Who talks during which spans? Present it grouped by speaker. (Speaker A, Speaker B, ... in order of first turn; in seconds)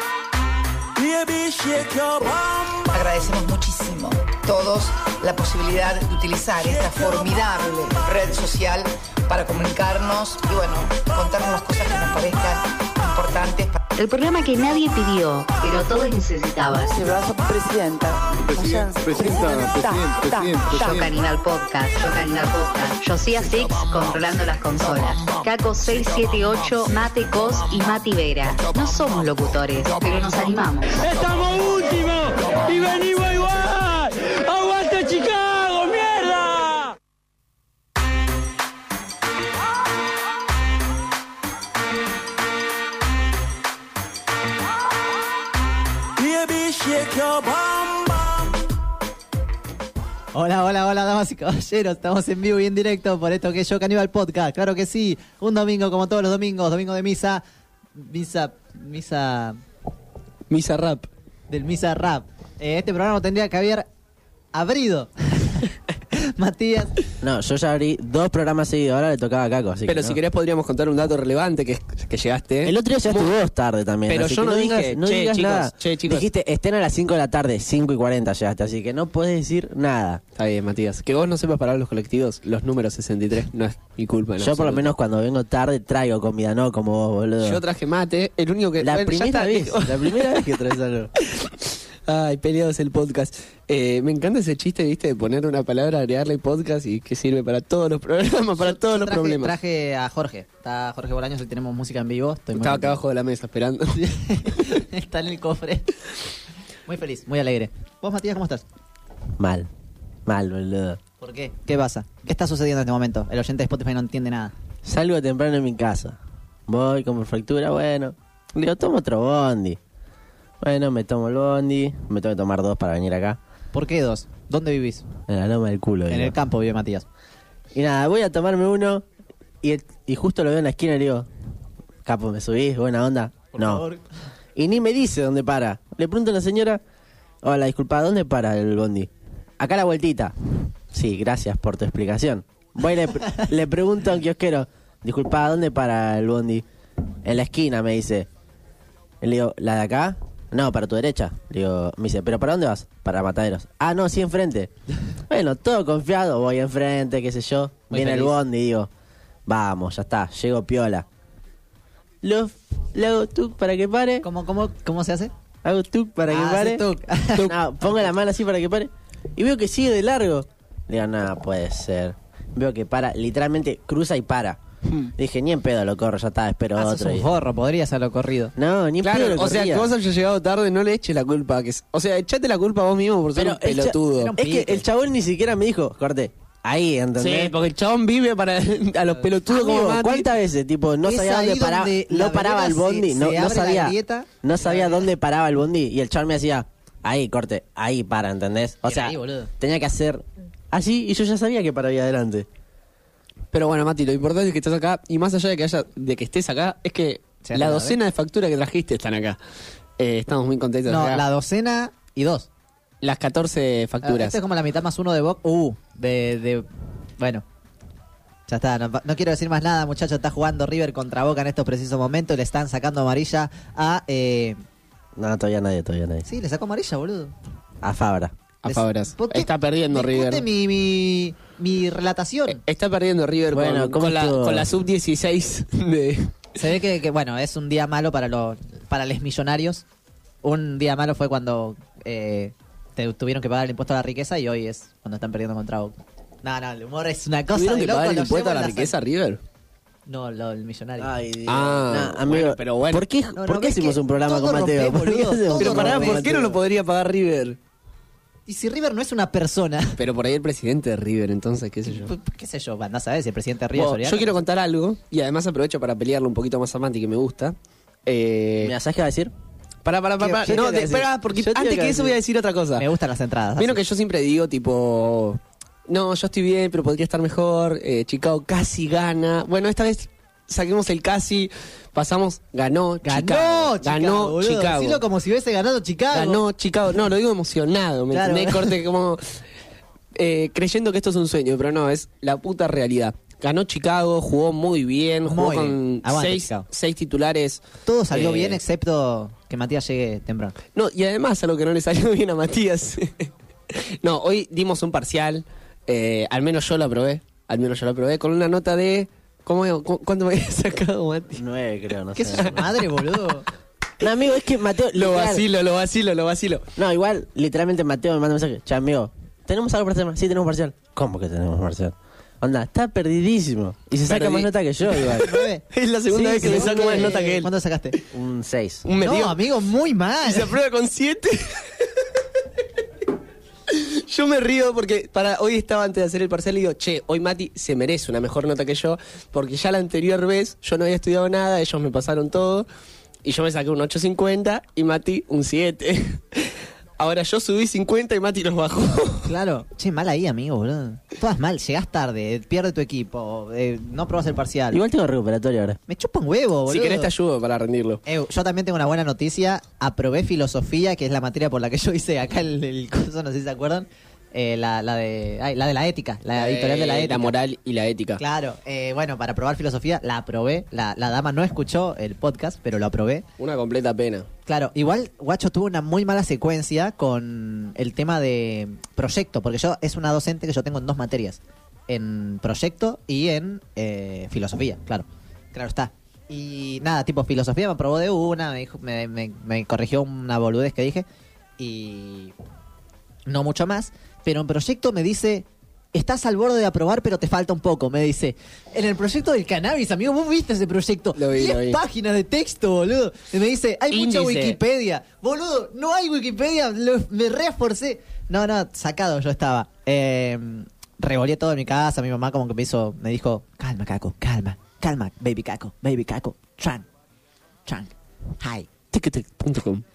Speaker A: 2.8-13.8, 16.9-21.0
Speaker B: 13.9-17.1, 20.6-31.4
Speaker C: 31.5-36.0
Speaker D: 50.3-57.4, 58.0-59.6, 61.5-63.9, 64.5-67.0, 98.7-103.0, 104.0-105.9, 106.8-108.6, 111.2-114.5, 123.7-125.0, 126.1-127.0, 133.5-134.0, 157.9-158.3, 164.2-165.3, 166.3-167.5, 176.8-178.5, 184.1-184.9, 191.0-195.1, 198.8-199.5, 207.4-208.0, 210.8-212.5, 214.0-216.7, 217.2-217.4, 218.5-224.6, 226.2-227.3, 228.6-232.6, 236.5-239.8, 240.4-248.9, 250.1-251.1, 253.3-256.3, 258.5-260.0, 261.9-264.4, 270.2-270.6, 272.8-273.8, 283.0-286.4, 288.1-288.8, 295.2-296.7, 297.8-300.6, 312.1-313.5, 325.2-325.6, 326.3-328.0, 329.0-330.6, 349.2-354.8, 355.9-357.1, 358.0-367.3, 368.2-373.2, 374.4-391.1, 391.6-392.3, 393.2-416.9, 417.6-418.7
Speaker E: 60.5-61.1, 69.9-73.3, 74.1-76.2, 80.3-84.9, 87.4-99.5, 102.6-104.8, 179.0-184.3, 187.2-190.3, 203.5-209.4, 210.0-211.2, 213.0-214.3, 228.6-230.4, 232.5-236.3, 247.5-249.4, 251.5-253.1, 255.6-257.6, 259.9-262.1, 263.7-268.7, 269.8-272.9, 273.6-285.0, 286.1-289.2, 290.1-298.6, 300.7-311.4, 312.3-312.8, 314.9-316.7, 324.1-327.5, 328.8-329.4, 330.2-332.1, 333.7-342.6, 343.2-349.3, 356.7-358.0, 366.3-368.2, 373.4-374.3, 401.1-401.8, 403.9-404.6, 418.9-419.8
Speaker F: 67.2-70.2, 72.6-80.2, 84.4-87.6, 88.8-91.1, 109.4-109.7, 110.2-111.0, 114.8-119.8, 120.6-123.4, 125.3-126.3, 127.7-129.0, 129.6-131.3, 132.1-133.8, 134.6-136.8, 137.4-146.6, 147.2-148.3, 149.2-154.7, 155.3-158.9, 159.5-161.0, 162.2-164.3, 165.6-166.8, 167.4-174.6, 175.2-177.3, 178.6-179.9, 183.3-187.5, 189.5-202.5, 225.2-226.2, 227.8-228.3, 233.5-234.7, 251.0-256.6, 268.6-269.3, 270.4-272.2, 311.3-312.7, 314.0-315.4, 316.8-325.4, 326.1-327.2, 328.1-328.8, 354.7-355.8